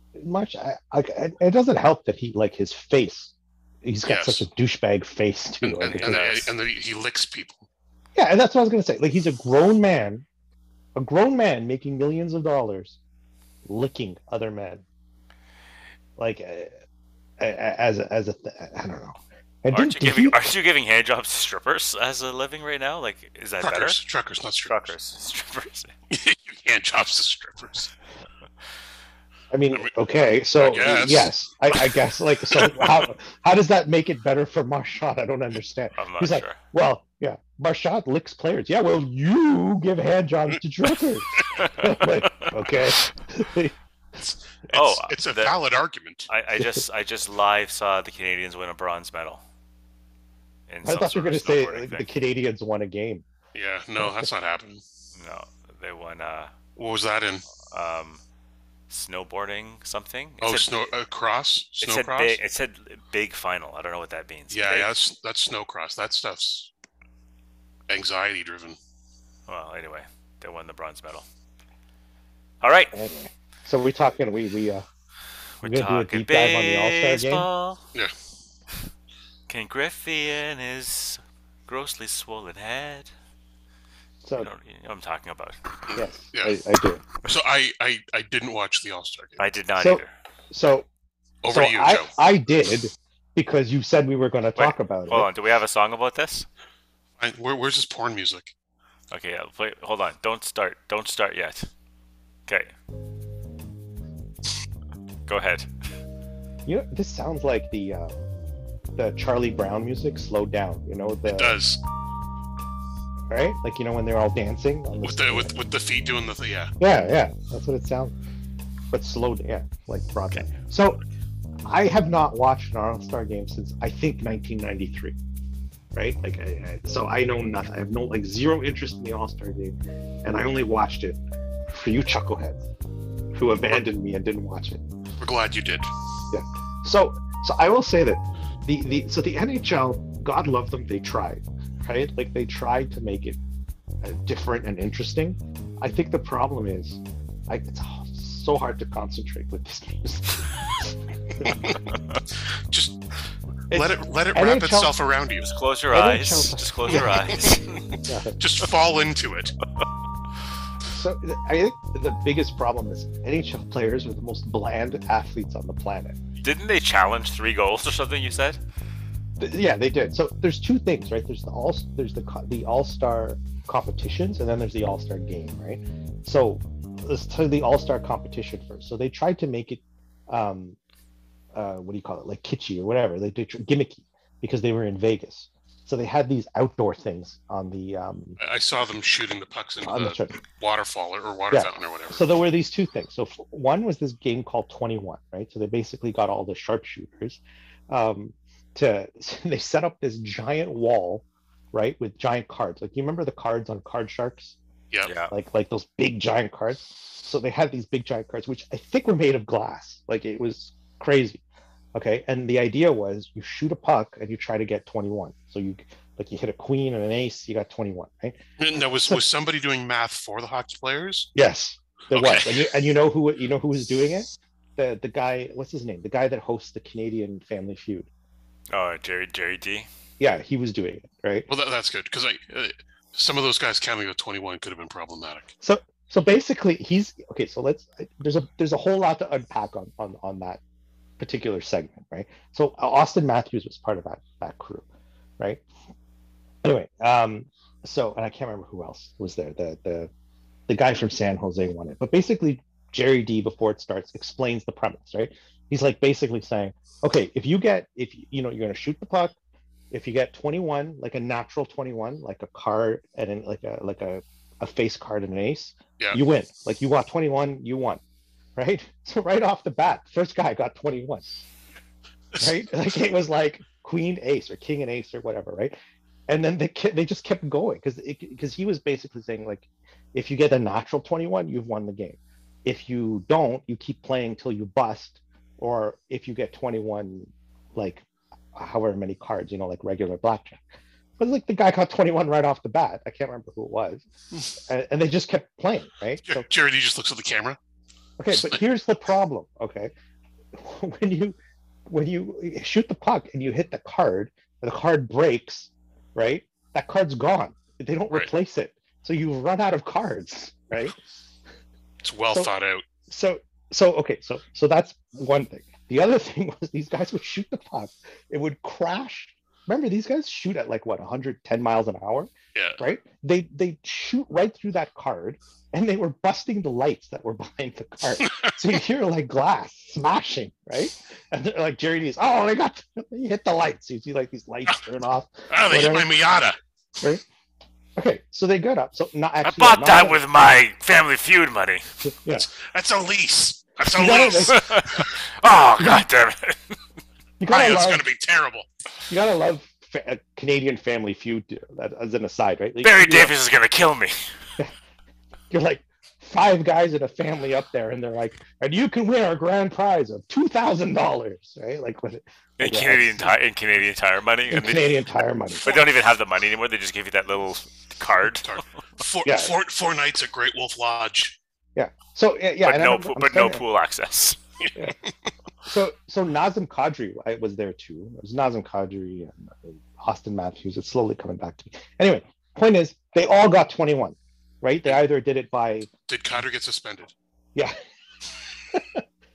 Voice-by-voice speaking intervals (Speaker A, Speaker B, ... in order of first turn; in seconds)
Speaker A: 0.1-6.5, 8.2-10.2, 10.9-13.0, 13.6-14.8, 16.2-16.7, 17.4-20.4, 29.5-43.7, 50.8-53.2, 54.0-54.2, 72.9-74.8, 75.6-77.5, 84.2-84.5, 85.9-87.0, 89.8-90.9, 91.5-95.3, 106.7-108.2, 108.9-111.6, 113.3-115.5, 116.8-118.1, 118.9-121.0, 121.6-125.1, 125.9-132.6, 133.3-134.8, 136.3-143.4, 144.0-151.6, 153.7-154.9, 155.9-157.2, 158.0-158.4, 160.9-166.2, 169.4-180.8, 181.5-188.4, 189.8-190.4, 191.5-204.6, 205.3-211.4, 211.9-218.4, 221.3-228.1, 230.2-231.5, 235.6-240.6, 241.2-244.8, 246.6-250.1, 250.7-259.3, 259.9-268.0, 268.6-271.3, 272.4-275.7, 276.3-290.6, 291.2-294.1, 294.6-296.4, 298.2-299.9, 300.5-301.4, 301.9-310.9, 313.1-336.2, 338.0-340.2, 342.1-342.5, 343.9-344.6, 347.4-348.1, 349.1-353.4, 355.5-363.3, 364.5-365.8, 369.2-369.5, 371.8-373.6, 375.6-385.9, 388.7-389.0
Speaker B: 4.1-4.4, 5.6-7.7, 23.6-24.9, 26.1-27.9, 30.5-31.3, 44.2-46.3, 53.5-54.8, 56.8-57.5, 60.4-62.4, 64.5-66.7, 67.9-68.8, 85.9-86.5, 87.2-89.4, 91.4-92.1, 97.2-98.5, 111.2-111.8, 115.0-116.7, 135.2-135.9, 151.4-151.8, 152.7-153.0, 153.7-155.4, 156.9-159.5, 188.4-192.3, 218.6-221.3, 222.1-222.7, 231.5-235.5, 296.2-297.6, 298.3-298.6, 312.0-312.8, 322.5-322.8, 328.2-328.6, 335.5-336.6, 342.3-345.1, 347.5-348.7, 368.3-371.4, 374.6-375.1, 386.1-387.1
Speaker C: 19.7-24.0, 24.7-25.9, 36.0-36.6, 41.6-42.5, 44.7-45.5, 46.3-49.4, 50.7-52.1, 55.1-56.5, 57.6-58.2, 58.9-60.7, 61.8-64.9, 69.5-71.2, 72.6-73.0, 75.6-77.8, 79.5-83.1, 84.4-85.6, 89.4-90.1, 94.5-96.5, 99.1-101.7, 102.5-102.7, 105.3-105.7, 155.4-157.8, 166.4-168.6, 205.0-205.3, 228.7-229.9, 339.4-342.1, 344.5-346.8, 352.8-354.2, 362.6-364.9, 365.6-368.6, 372.6-374.4